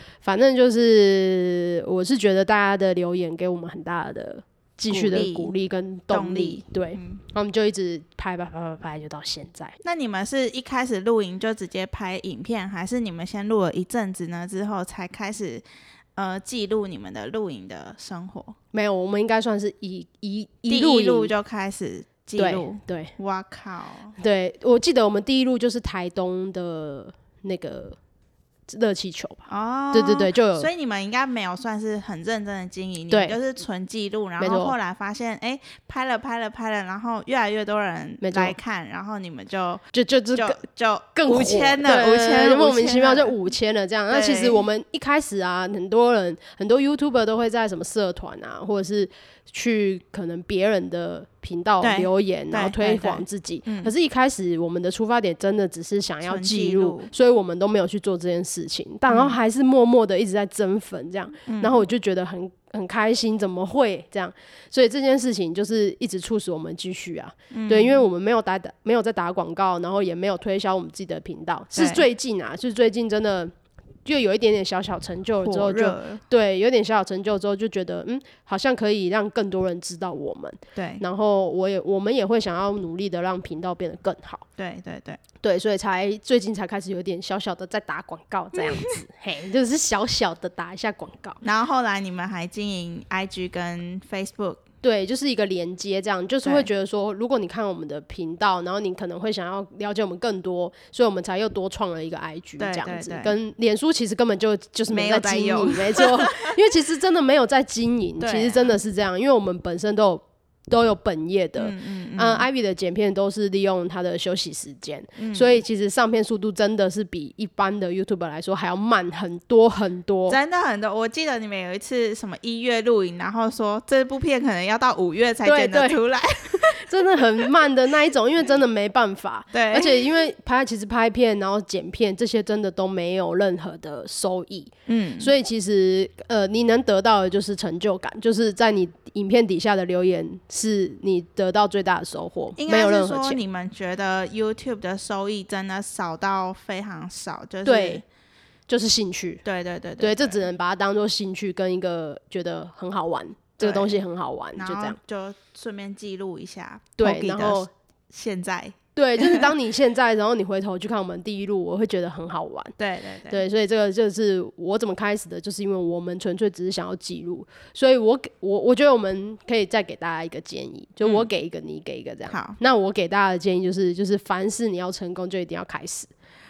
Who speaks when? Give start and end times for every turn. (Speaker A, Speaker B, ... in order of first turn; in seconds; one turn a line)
Speaker A: 0.2-9.8
Speaker B: 4.9-5.5
Speaker B: 6.1-7.2
Speaker B: 9.8-15.6
Speaker B: 16.2-18.6
Speaker A: 18.7-21.3
Speaker B: 20.7-24.1
Speaker A: 22.4-23.1
Speaker A: 24.2-28.0
Speaker A: 28.7-30.7
Speaker B: 29.5-43.4
Speaker A: 33.1-33.4
Speaker A: 34.4-34.8
Speaker A: 38.2-38.6
Speaker A: 39.9-40.6
Speaker A: 41.1-73.5
Speaker B: 44.1-44.6
Speaker B: 51.8-53.9
Speaker B: 56.2-57.1
Speaker B: 59.1-59.4
Speaker B: 61.5-61.9
Speaker B: 67.5-68.0
Speaker B: 71.8-72.1
Speaker A: 74.0-84.5
Speaker B: 75.4-76.2
Speaker B: 80.8-81.0
Speaker B: 84.6-85.2
Speaker A: 85.4-91.4
Speaker B: 88.6-88.8
Speaker B: 91.4-94.6
Speaker A: 94.8-120.4
Speaker B: 102.6-103.4
Speaker B: 104.9-106.5
Speaker B: 108.2-108.8
Speaker B: 111.6-112.5
Speaker B: 115.2-115.6
Speaker B: 120.3-127.5
Speaker A: 125.5-126.0
Speaker A: 126.5-143.4
Speaker B: 129.5-130.1
Speaker B: 134.9-135.3
Speaker B: 142.6-148.0
Speaker A: 147.7-148.0
Speaker A: 148.7-149.4
Speaker B: 149.4-150.4
Speaker A: 150.0-155.0
Speaker B: 153.6-154.0
Speaker B: 154.6-159.5
Speaker A: 157.0-157.7
Speaker A: 159.0-162.8
Speaker B: 162.8-163.4
Speaker A: 163.3-176.1
Speaker B: 172.3-172.6